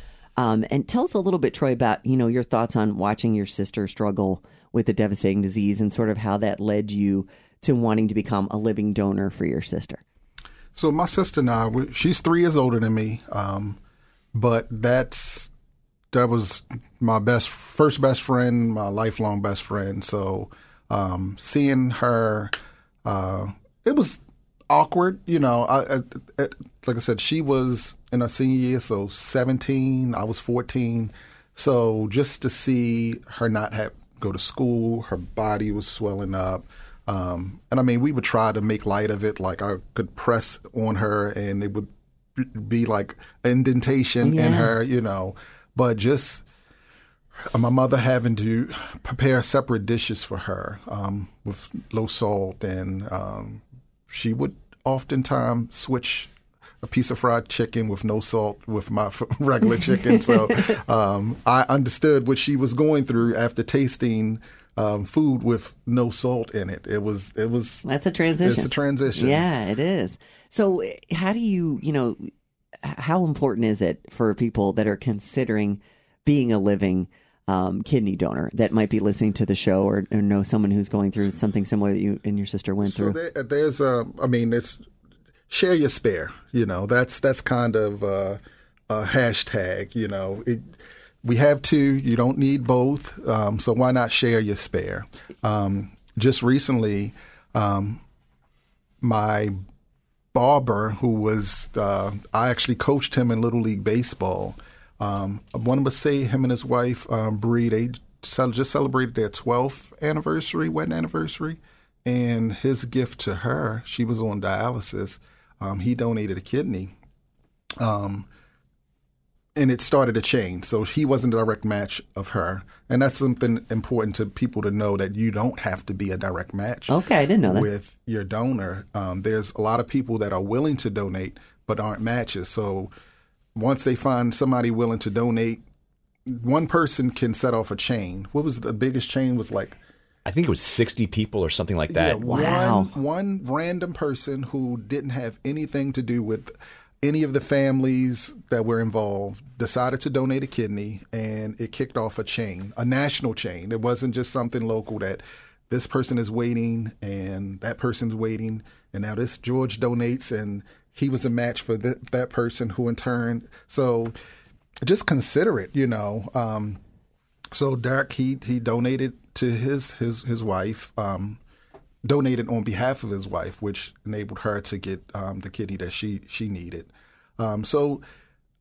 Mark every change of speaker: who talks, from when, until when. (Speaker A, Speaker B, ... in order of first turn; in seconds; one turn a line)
Speaker A: 0.4-10.0
Speaker B: 10.7-13.8
Speaker B: 14.3-15.5
Speaker B: 16.1-22.5
Speaker B: 23.1-46.5
Speaker A: 44.2-44.7
Speaker B: 47.4-67.8
Speaker A: 60.1-60.4
Speaker A: 67.8-72.3
Speaker B: 68.4-69.5
Speaker A: 72.8-83.2
Speaker B: 82.8-84.9
Speaker B: 85.5-90.7
Speaker B: 91.2-98.0
Speaker B: 99.0-99.6
Speaker B: 100.3-116.9
Speaker B: 117.8-118.3
Speaker B: 119.5-132.9
Speaker A: 126.9-127.7
Speaker B: 133.6-135.6
Speaker B: 136.3-139.8
Speaker C: 140.3-142.3
Speaker B: 141.9-164.1
Speaker A: 142.2-142.9
Speaker B: 164.8-166.8
Speaker B: 167.5-171.4
Speaker B: 172.0-178.0